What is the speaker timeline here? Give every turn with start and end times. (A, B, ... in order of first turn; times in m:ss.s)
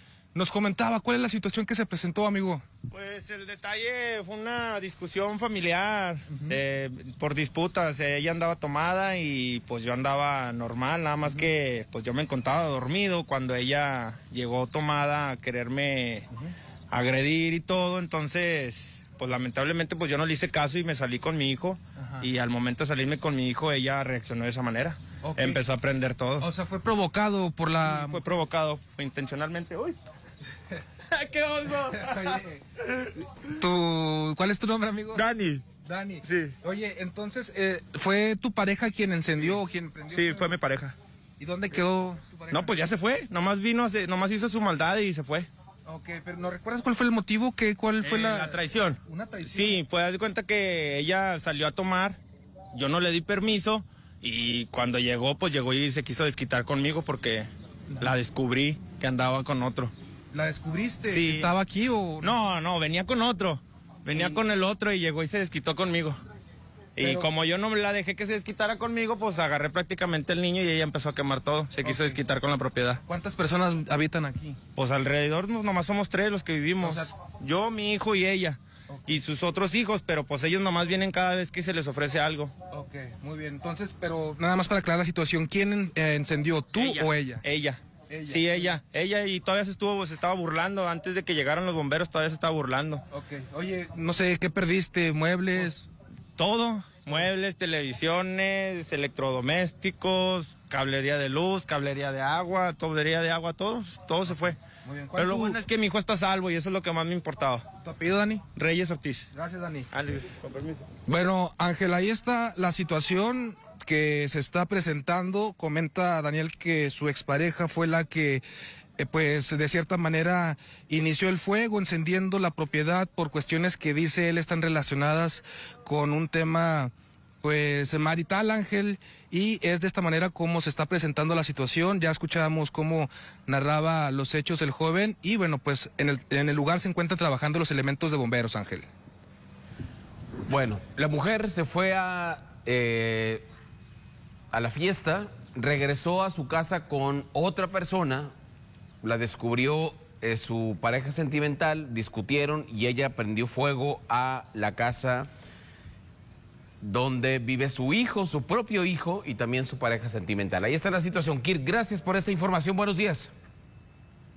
0:00.3-0:02.6 A
0:02.9-0:16.3 B
0:16.9-0:26.5 B
0:22.0-0:22.2 A
0:25.2-0:25.6 A
0:26.4-0:28.4 A
0:27.8-0:30.0 B
0:31.1-0:32.4 B
0:31.9-0:32.6 A
0:33.4-0:35.2 A
0:35.1-0:35.6 B
0:35.8-0:40.5 A
0:36.2-0:36.5 B
0:40.1-0:41.0 B
0:41.4-0:42.9 A
0:42.5-0:45.5 B
0:45.8-0:49.8 A
0:48.0-0:52.2 B
0:52.7-0:59.9 B
1:00.3-1:02.3 A
1:01.0-1:01.5 B
1:02.2-1:06.2 B
1:04.1-1:04.4 A
1:07.0-1:13.0 B
1:07.0-1:07.3 A
1:11.8-1:12.2 A
1:13.0-1:14.6 A
1:14.7-1:22.5 B
1:16.8-1:17.1 A
1:18.9-1:19.2 A
1:22.7-1:27.4 A
1:26.7-1:33.0 B
1:28.1-1:28.7 A
1:33.1-1:35.9 A
1:36.4-1:44.6 B
1:44.8-1:45.6 A
1:45.2-1:47.6 B
1:47.8-1:48.4 A
1:48.5-1:49.3 B
1:49.3-1:49.9 A
1:49.9-1:50.8 B
1:51.1-1:58.4 A
1:59.0-2:18.8 A
2:20.5-2:23.4 C
2:24.5-2:28.3 C
2:29.0-2:35.3 C
2:36.8-2:43.3 C